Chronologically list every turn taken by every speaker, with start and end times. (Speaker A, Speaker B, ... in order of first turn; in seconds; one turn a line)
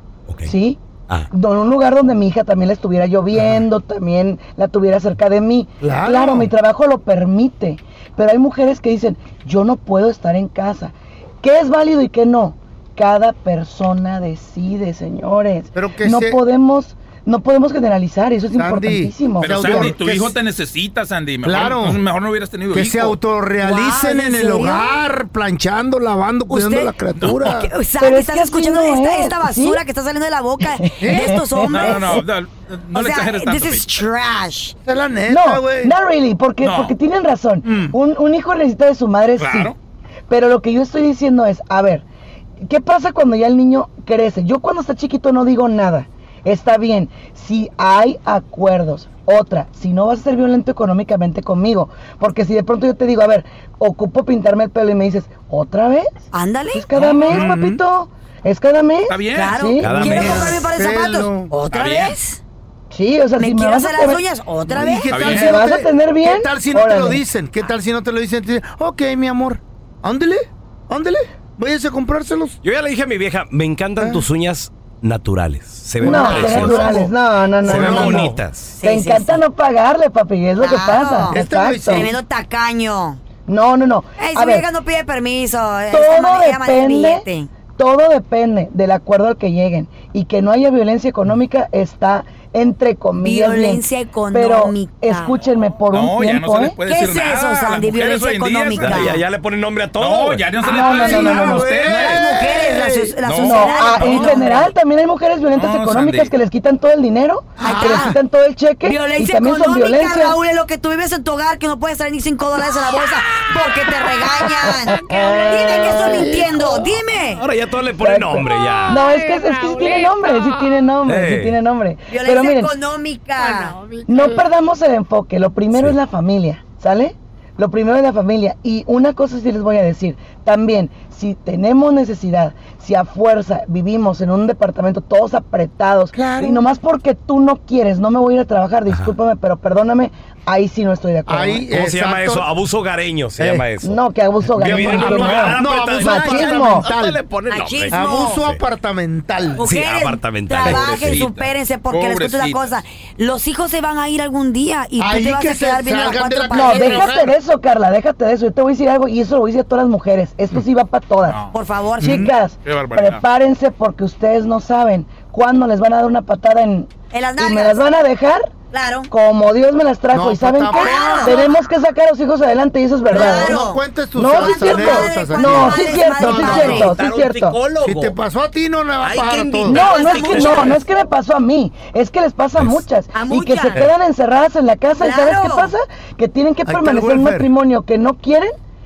Speaker A: 0.4-0.8
Speaker A: 1.3-19.9
Speaker B: 3.3-3.6
Speaker B: 5.8-6.5
Speaker B: 15.7-16.4
Speaker B: 18.5-20.3
Speaker C: 19.4-23.2
Speaker B: 21.4-22.0
Speaker B: 22.7-27.7
Speaker D: 23.6-25.0
Speaker D: 26.5-32.2
Speaker C: 27.2-27.5
Speaker A: 28.0-29.8
Speaker A: 30.8-32.2
Speaker B: 31.0-31.4
Speaker C: 31.6-34.0
Speaker D: 32.9-34.7
Speaker B: 34.8-35.9
Speaker A: 35.3-39.7
Speaker C: 36.6-36.9
Speaker C: 39.4-39.7
Speaker A: 40.3-42.0
Speaker A: 42.6-56.1
Speaker D: 56.3-56.9
Speaker A: 56.7-59.9
Speaker C: 56.9-57.4
Speaker B: 57.3-57.8
Speaker C: 59.1-59.6
Speaker D: 59.3-62.4
Speaker E: 59.8-60.6
Speaker B: 60.0-61.5
Speaker E: 61.7-62.1
Speaker A: 62.9-64.2
Speaker D: 63.4-65.2
Speaker B: 64.7-72.6
Speaker C: 65.1-65.6
Speaker A: 65.2-67.2
Speaker E: 72.6-77.0
Speaker B: 74.0-74.2
Speaker B: 76.0-77.1
Speaker A: 76.0-78.3
Speaker D: 76.3-76.9
Speaker B: 77.6-78.4
Speaker E: 77.6-78.7
Speaker D: 78.7-79.4
Speaker A: 78.8-82.1
Speaker D: 80.6-83.2
Speaker B: 81.3-82.1
Speaker A: 83.5-84.7
Speaker D: 84.2-87.5
Speaker A: 85.9-96.8
Speaker D: 93.2-95.4
Speaker C: 95.8-99.1
Speaker D: 96.8-99.2
Speaker E: 98.7-100.5
Speaker C: 100.0-102.3
Speaker A: 100.6-101.7
Speaker B: 100.6-103.2
Speaker D: 101.3-104.7
Speaker C: 103.2-104.4
Speaker A: 103.4-110.4
Speaker C: 105.5-106.3
Speaker D: 107.6-108.2
Speaker B: 107.6-108.2
Speaker D: 108.8-117.4
Speaker A: 114.9-115.9
Speaker B: 115.1-116.8
Speaker E: 117.4-119.1
Speaker A: 118.0-122.7
Speaker E: 121.0-121.6
Speaker D: 122.1-123.9
Speaker A: 124.0-141.7
Speaker B: 136.1-136.7
Speaker B: 141.3-142.5
Speaker E: 141.7-143.9
Speaker B: 143.4-143.6
Speaker A: 143.8-146.8
Speaker E: 144.6-148.6
Speaker B: 144.6-147.2
Speaker D: 147.5-148.4
Speaker B: 147.9-149.6
Speaker D: 149.5-157.1
Speaker E: 149.6-151.2
Speaker C: 150.6-152.8
Speaker B: 155.0-157.3
Speaker A: 156.5-161.4
Speaker C: 161.2-161.5
Speaker D: 161.5-162.2
Speaker B: 162.0-162.3
Speaker A: 162.0-168.5
Speaker C: 162.6-163.2
Speaker D: 167.1-167.8
Speaker D: 168.7-169.1
Speaker A: 169.1-173.6
Speaker B: 170.1-171.4
Speaker D: 170.7-171.5
Speaker D: 173.1-176.9
Speaker B: 173.1-176.9
Speaker A: 174.1-177.6
Speaker E: 176.4-178.2
Speaker B: 177.8-180.7
Speaker E: 179.0-180.7
Speaker D: 179.7-180.8
Speaker A: 179.7-188.5
Speaker D: 183.1-183.8
Speaker D: 185.0-185.7
Speaker B: 186.7-187.5